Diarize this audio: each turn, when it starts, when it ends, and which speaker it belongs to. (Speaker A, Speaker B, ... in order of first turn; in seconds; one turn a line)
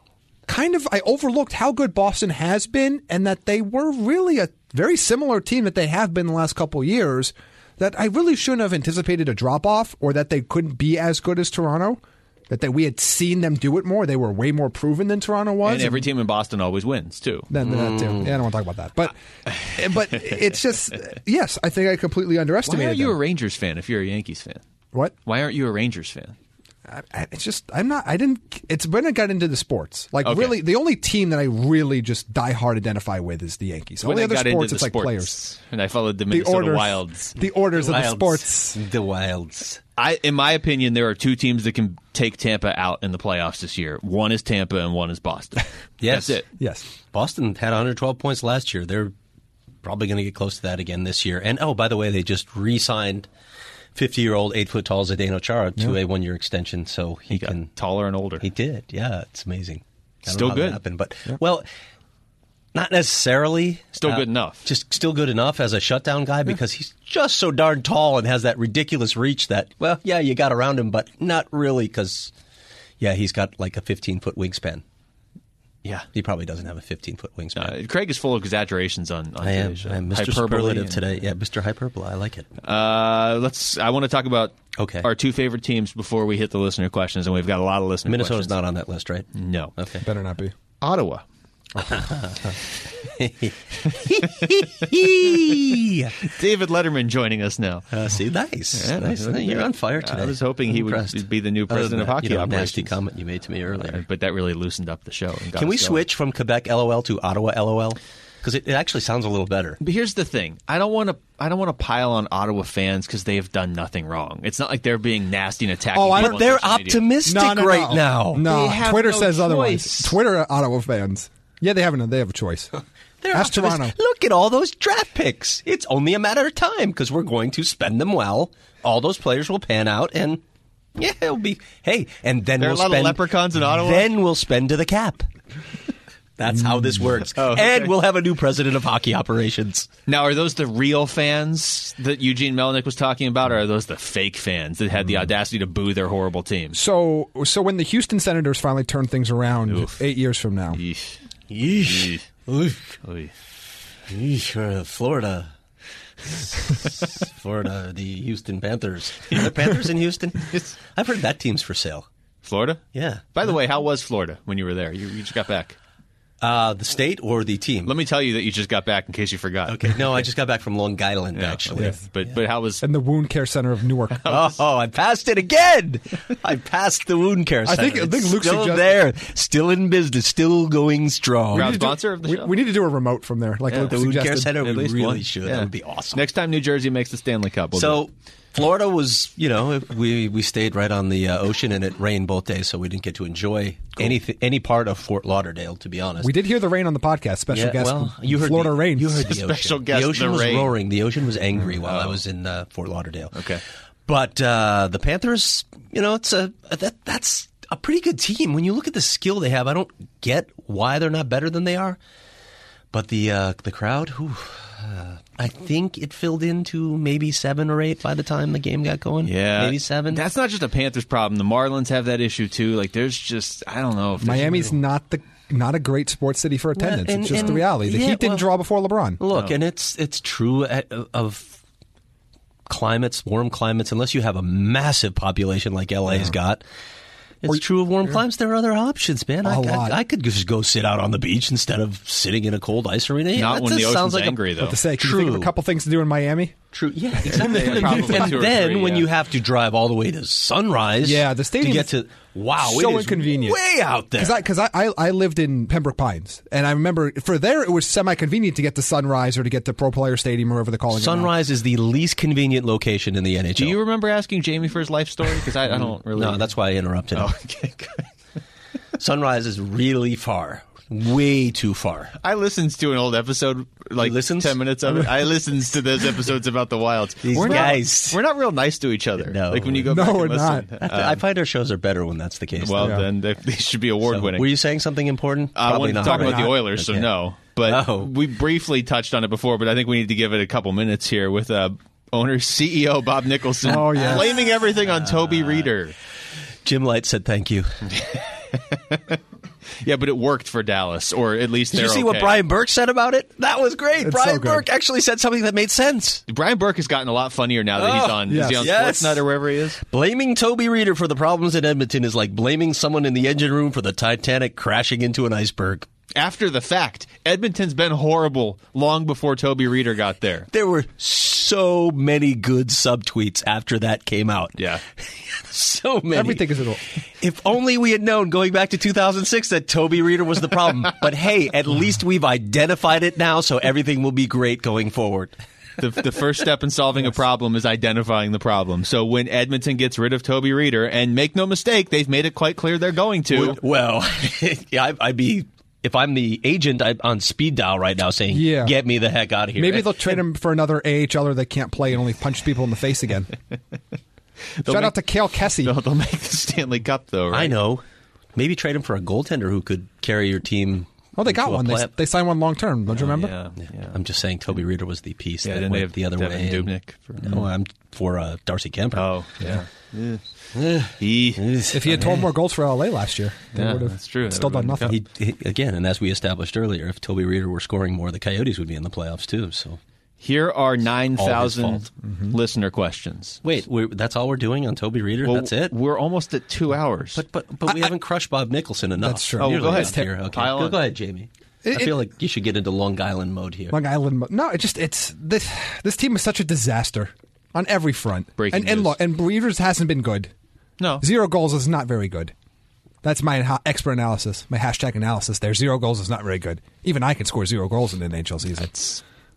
Speaker A: 0.5-16.1
Speaker B: 15.6-17.5
Speaker A: 17.5-23.2
Speaker C: 17.6-18.3
Speaker B: 19.4-20.6
Speaker B: 22.7-24.6
Speaker B: 25.2-26.4
Speaker A: 26.9-35.4
Speaker B: 30.2-30.6
Speaker B: 34.0-37.4
Speaker A: 36.3-38.8
Speaker C: 37.8-39.8
Speaker B: 40.0-46.5
Speaker C: 46.0-46.4
Speaker A: 46.6-46.9
Speaker C: 47.1-49.1
Speaker C: 49.8-53.3
Speaker C: 54.0-57.7
Speaker B: 57.3-58.5
Speaker C: 58.4-61.6
Speaker B: 60.3-60.8
Speaker C: 62.7-72.3
Speaker B: 64.0-64.7
Speaker C: 73.0-74.8
Speaker C: 76.1-77.7
Speaker B: 77.5-81.2
Speaker C: 79.4-82.5
Speaker B: 82.6-88.6
Speaker C: 84.8-85.1
Speaker C: 88.1-90.1
Speaker B: 89.3-89.7
Speaker A: 90.0-90.5
Speaker B: 90.8-91.2
Speaker C: 91.9-96.2
Speaker B: 96.2-97.8
Speaker C: 97.9-104.0
Speaker B: 98.7-103.0
Speaker B: 103.7-106.0
Speaker C: 105.5-109.8
Speaker B: 109.8-117.0
Speaker A: 115.9-116.5
Speaker C: 116.2-118.5
Speaker A: 117.2-122.7
Speaker B: 118.4-120.2
Speaker C: 123.2-130.4
Speaker A: 123.3-124.0
Speaker C: 130.9-135.3
Speaker B: 132.6-134.1
Speaker C: 136.4-139.9
Speaker A: 136.6-137.0
Speaker B: 137.3-137.9
Speaker B: 140.1-146.8
Speaker A: 146.7-150.8
Speaker B: 149.7-150.0
Speaker B: 150.7-151.2
Speaker C: 151.5-153.0
Speaker B: 151.8-152.2
Speaker B: 153.0-153.3
Speaker C: 154.1-155.5
Speaker C: 156.2-162.1
Speaker B: 162.4-165.8
Speaker C: 162.9-163.2
Speaker C: 166.4-167.9
Speaker B: 167.8-170.3
Speaker C: 169.7-172.3
Speaker B: 171.3-172.8
Speaker A: 172.8-174.3
Speaker B: 174.1-174.6
Speaker C: 174.3-181.9
Speaker A: 177.7-178.9
Speaker A: 181.5-184.7
Speaker B: 181.5-182.5
Speaker B: 183.7-188.0
Speaker C: 183.8-186.3
Speaker C: 187.7-196.3
Speaker A: 196.2-199.4
Speaker C: 197.5-212.0
Speaker B: 199.3-200.7
Speaker B: 201.8-202.2
Speaker B: 203.3-203.6
Speaker C: 212.9-220.2
Speaker B: 219.2-224.7
Speaker A: 224.2-229.2
Speaker C: 226.8-228.5
Speaker C: 229.2-231.6
Speaker B: 229.3-229.6
Speaker C: 232.7-236.6
Speaker A: 236.1-236.4
Speaker C: 237.4-245.5
Speaker A: 237.4-238.2
Speaker A: 239.4-240.0
Speaker B: 243.3-244.8
Speaker A: 244.6-246.6
Speaker C: 246.7-254.4
Speaker A: 247.2-248.6
Speaker B: 247.3-249.1
Speaker A: 251.0-251.9
Speaker A: 252.6-253.6
Speaker A: 254.2-261.3
Speaker C: 260.9-263.8
Speaker B: 263.6-266.5
Speaker C: 265.7-267.3
Speaker B: 267.1-268.1
Speaker C: 269.0-272.1
Speaker B: 272.2-281.2
Speaker C: 274.0-274.6
Speaker C: 277.2-278.2
Speaker A: 277.3-277.8
Speaker C: 279.2-279.9
Speaker A: 279.9-280.7
Speaker C: 280.8-283.0
Speaker B: 282.6-284.6
Speaker A: 282.8-283.1
Speaker C: 284.1-287.1
Speaker B: 285.5-295.9
Speaker A: 286.0-286.6
Speaker C: 287.6-288.1
Speaker A: 293.7-294.3
Speaker C: 293.8-295.7
Speaker C: 296.6-297.9
Speaker B: 297.9-299.2
Speaker B: 299.8-302.4
Speaker C: 301.7-306.2
Speaker A: 304.0-304.6
Speaker B: 306.3-309.8
Speaker C: 307.7-309.3
Speaker A: 308.3-308.7
Speaker C: 309.8-315.9
Speaker B: 316.1-320.5
Speaker C: 320.5-326.5
Speaker B: 324.6-324.8
Speaker A: 326.1-326.8
Speaker C: 327.1-335.3
Speaker B: 335.8-343.6
Speaker C: 343.3-350.0
Speaker A: 348.3-348.8
Speaker A: 349.6-353.3
Speaker B: 354.6-357.6
Speaker A: 354.7-355.7
Speaker C: 357.3-357.8
Speaker C: 358.4-361.9
Speaker A: 361.1-363.4
Speaker B: 362.9-364.0
Speaker C: 363.9-366.7
Speaker B: 365.4-367.4
Speaker C: 367.2-369.1
Speaker B: 368.9-370.2
Speaker C: 370.6-372.3
Speaker B: 371.0-372.2
Speaker A: 371.7-374.9
Speaker B: 373.5-374.9
Speaker C: 374.8-379.8
Speaker B: 380.2-383.4
Speaker C: 381.2-381.9
Speaker A: 382.0-382.4
Speaker C: 383.4-385.7
Speaker B: 385.2-387.2
Speaker C: 387.2-393.8
Speaker A: 387.7-388.0
Speaker A: 389.0-390.1
Speaker B: 389.4-390.8
Speaker A: 391.6-392.0
Speaker A: 393.7-400.3
Speaker B: 398.4-399.0
Speaker B: 400.8-401.0
Speaker A: 401.0-402.3
Speaker A: 403.0-408.9
Speaker B: 408.7-409.0